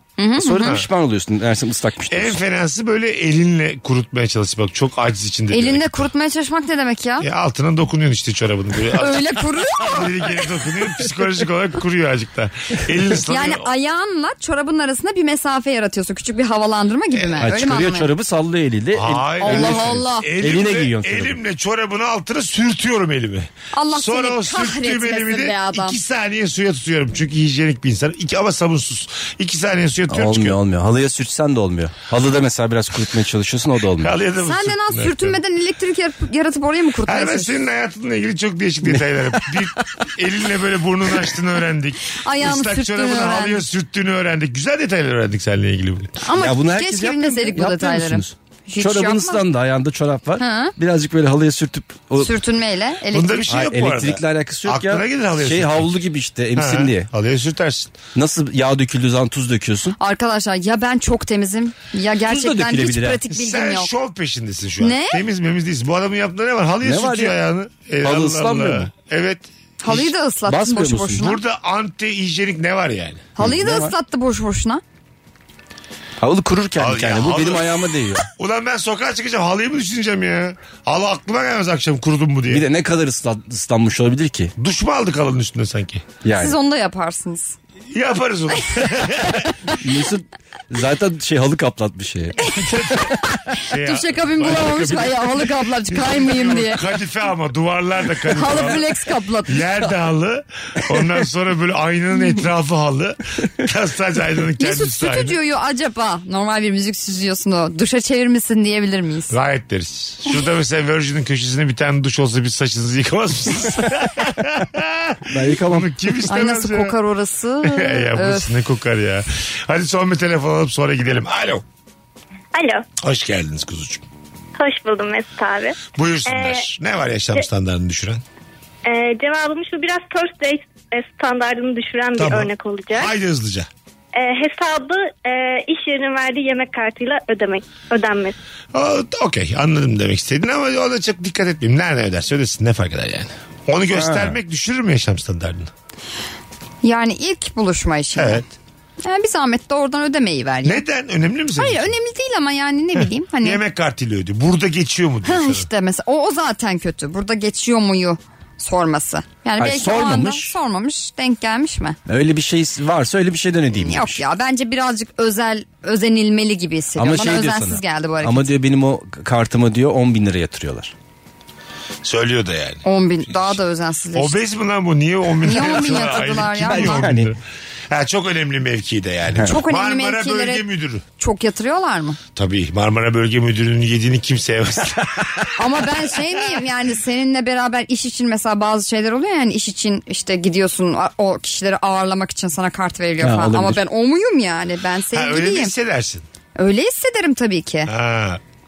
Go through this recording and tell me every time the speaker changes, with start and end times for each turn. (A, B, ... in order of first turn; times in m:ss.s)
0:00.2-0:00.8 A
0:00.4-0:02.4 B
0:02.1-0:06.1 C
0:05.5-0:07.2 A
0:07.2-0:13.7 C
0:09.0-0:10.4 A
0:13.3-0:18.1 A
0:17.2-0:17.5 C
0:17.4-0:21.4 B
0:18.9-0:30.6 C
0:19.4-0:20.3 A
0:23.7-0:26.0 A
0:30.1-0:34.1 B
0:34.0-0:35.4 C
0:34.4-0:37.5 A
0:37.1-0:46.1 C
0:42.2-0:43.6 A
0:46.2-0:49.4 A
0:46.4-0:52.3 B
0:50.4-0:50.7 A
0:52.2-0:53.5 A
0:53.1-0:55.9 C
0:53.5-0:57.1 B
0:56.6-0:57.9 C
0:58.1-1:00.0 B
1:00.0-1:03.9 A
1:02.2-1:03.2 B
1:03.3-1:10.1 C
1:04.8-1:05.2 A
1:06.8-1:07.4 B
1:08.0-1:08.9 B
1:09.8-1:11.4 A
1:10.5-1:11.3 B
1:11.1-1:13.3 C
1:13.4-1:14.8 A
1:13.4-1:13.9 B
1:16.2-1:18.2 B
1:16.8-1:17.7 C
1:18.3-1:22.6 C
1:22.5-1:24.5 B
1:24.6-1:26.1 C
1:26.2-1:26.6 B
1:26.4-1:27.5 A
1:27.9-1:29.7 C
1:29.8-1:32.4 B
1:32.4-1:35.3 C
1:32.4-1:36.8 A
1:34.4-1:35.1 B
1:35.9-1:38.8 C
1:38.3-1:39.6 A
1:39.4-1:45.3 C
1:44.6-1:49.3 A
1:49.3-1:56.9 C
1:55.3-1:55.9 B
1:56.3-1:58.5 A
1:57.6-2:01.6 C
2:02.5-2:02.8 D
2:03.0-2:04.0 C
2:04.6-2:06.6 D
2:05.9-2:08.2 C
2:08.8-2:13.1 D
2:12.2-2:13.7 C
2:14.1-2:18.4 D
2:18.7-2:25.7 C
2:23.9-2:24.4 B
2:26.8-2:28.4 A
2:28.1-2:28.5 C
2:29.0-2:30.8 A
2:30.6-2:31.9 C
2:31.6-2:33.6 A
2:33.0-2:35.7 C
2:35.2-2:42.0 A
2:39.6-2:40.5 B
2:42.1-2:44.2 B
2:43.8-2:48.5 A
2:47.0-2:50.9 B
2:52.0-2:53.6 C
2:52.8-2:54.3 A
2:54.1-2:57.4 C
2:55.4-2:57.1 A
2:55.5-2:57.3 B
2:57.9-3:01.0 C
2:59.4-3:00.6 A
3:01.2-3:02.2 A
3:02.4-3:05.5 C
3:05.6-3:15.7 A
3:13.2-3:13.8 B
3:15.1-3:16.2 C
3:16.6-3:17.9 A
3:17.9-3:18.4 C